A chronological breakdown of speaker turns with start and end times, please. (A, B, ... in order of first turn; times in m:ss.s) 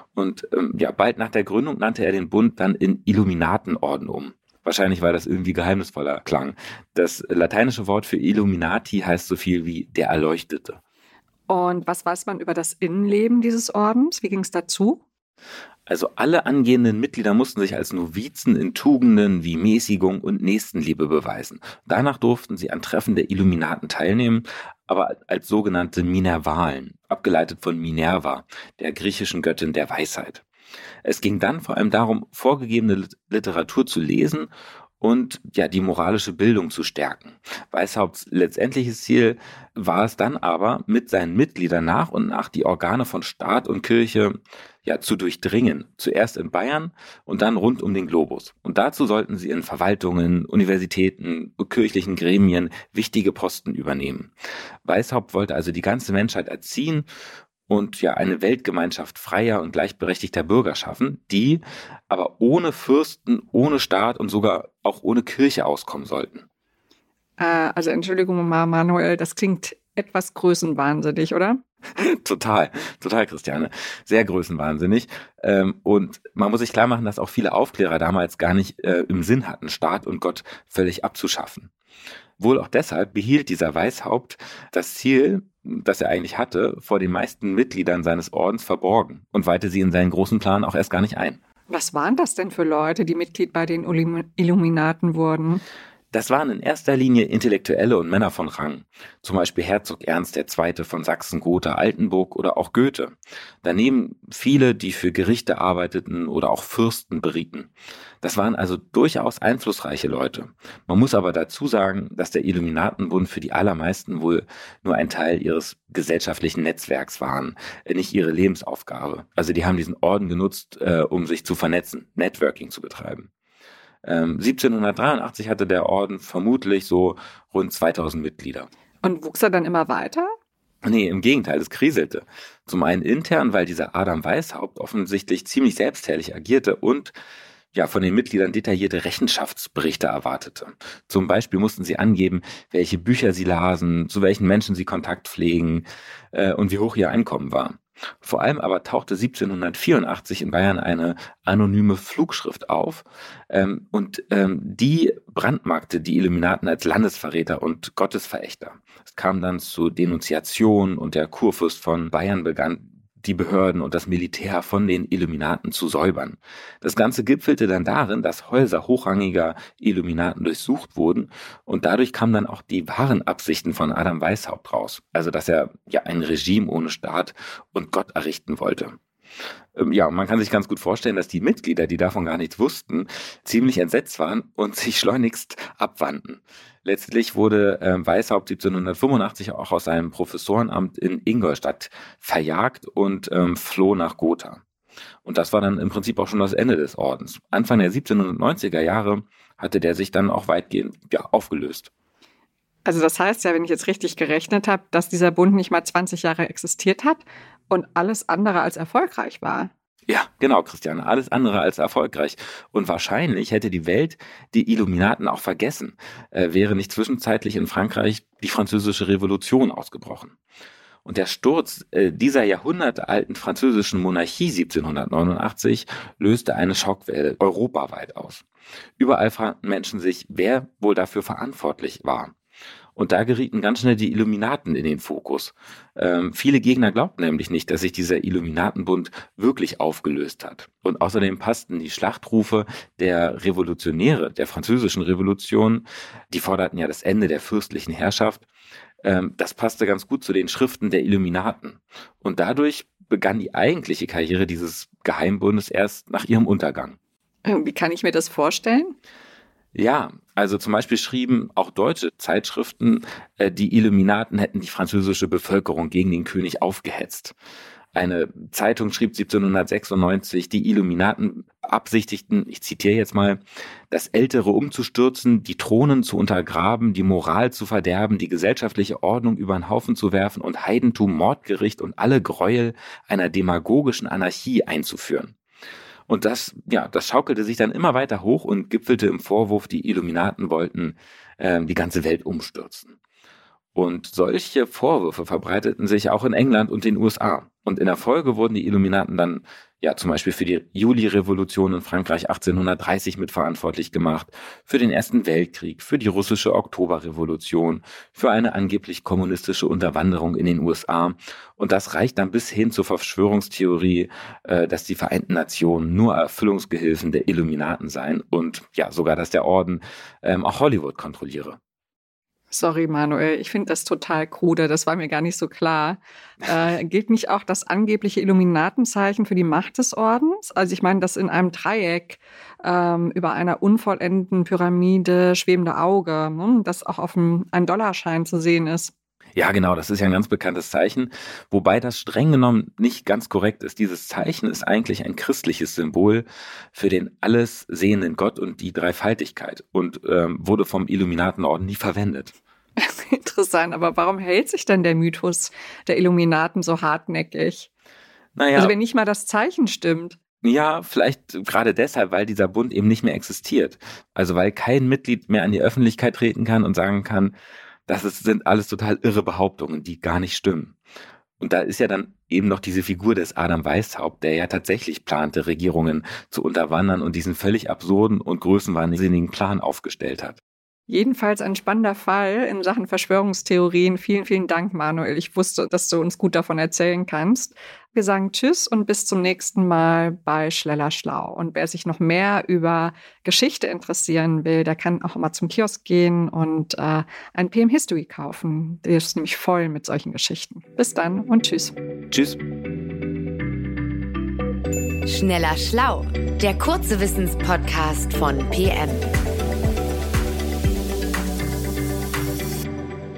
0:00.1-0:10.8 A
0:11.5-0:15.0 B
0:15.9-0:30.4 A
0:31.0-0:34.5 A
0:35.0-0:54.3 A
0:54.8-0:57.1 A
0:57.7-1:06.5 A
1:07.4-1:11.6 B
1:12.0-1:21.7 A
1:22.4-1:31.4 A
1:31.7-1:35.6 B
1:36.1-1:47.7 A
1:48.2-2:03.3 A
2:04.0-2:08.7 A
2:09.0-2:10.3 B
2:10.8-2:17.1 A
2:17.7-2:59.0 A
2:59.8-3:14.6 A
3:15.2-3:21.9 A
3:22.8-3:29.7 B
3:30.1-3:40.4 A
3:41.0-3:48.4 A
3:49.0-3:52.3 A
3:53.0-4:08.5 A
4:09.0-4:17.0 A
4:17.4-4:19.0 B
4:19.7-4:27.3 A
4:27.9-4:45.3 A
4:46.1-4:53.0 A
4:53.8-5:21.6 A
5:22.5-5:38.9 B
5:39.4-5:52.3 A
5:52.8-5:57.7 B
5:58.4-5:58.8 A
5:58.6-6:00.2 B
6:00.4-6:07.3 A
6:07.9-6:10.8 A
6:11.4-6:20.4 A
6:20.9-6:41.7 B
6:42.1-6:42.4 A
6:45.1-6:49.1 C